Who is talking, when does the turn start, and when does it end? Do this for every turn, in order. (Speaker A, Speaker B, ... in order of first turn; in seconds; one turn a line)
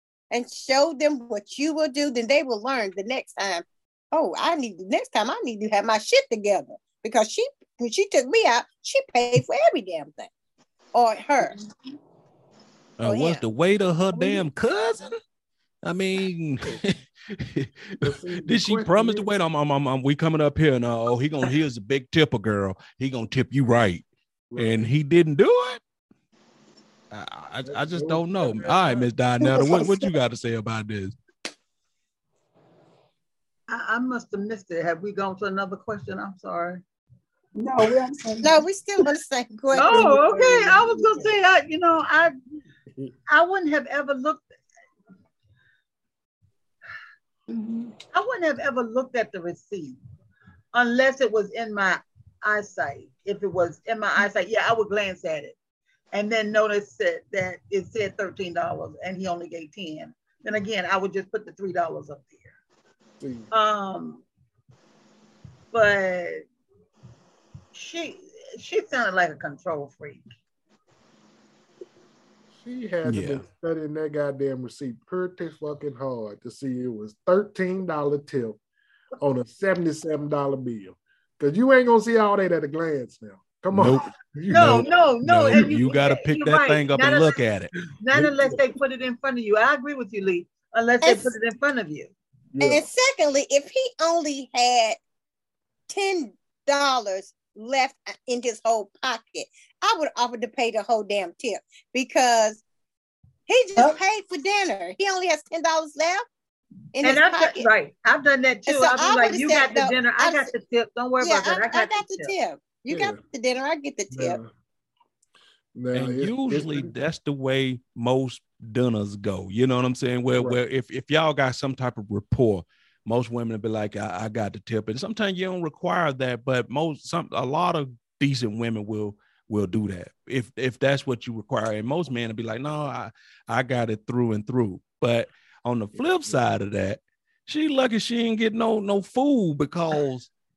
Speaker A: 0.3-10.3
Speaker A: 10.9-11.5
Speaker B: 13.0-15.1
Speaker A: 13.0-13.4
Speaker B: 15.8-25.8
Speaker C: 18.0-19.3
Speaker C: 24.5-24.9
Speaker B: 27.1-31.1
Speaker C: 27.6-29.1
Speaker D: 29.4-30.1
Speaker E: 33.7-36.8
Speaker D: 37.6-38.6
Speaker A: 38.4-40.5
Speaker E: 39.7-42.3
Speaker D: 39.9-40.7
Speaker C: 40.4-41.3
Speaker E: 43.3-44.5
Speaker D: 47.5-47.9
Speaker E: 48.1-50.0
Speaker E: 50.7-55.5
Speaker E: 56.1-62.5
Speaker C: 63.2-63.5
Speaker E: 63.5-64.2
Speaker E: 65.7-66.5
Speaker E: 67.7-70.2
Speaker C: 72.6-78.6
Speaker B: 73.0-73.4
Speaker C: 79.2-84.9
Speaker B: 83.7-87.7
Speaker E: 84.5-87.4
Speaker E: 88.0-92.1
Speaker C: 88.1-88.6
Speaker A: 91.0-91.3
Speaker C: 92.5-92.8
Speaker A: 92.6-95.0
Speaker A: 95.9-102.6
Speaker A: 103.5-106.2
Speaker A: 106.9-107.7
Speaker E: 107.0-112.3
Speaker A: 108.7-110.5
Speaker A: 111.2-114.4
Speaker C: 112.9-113.2
Speaker C: 114.1-114.5
Speaker C: 115.7-116.9
Speaker B: 115.9-140.3
Speaker C: 135.9-136.4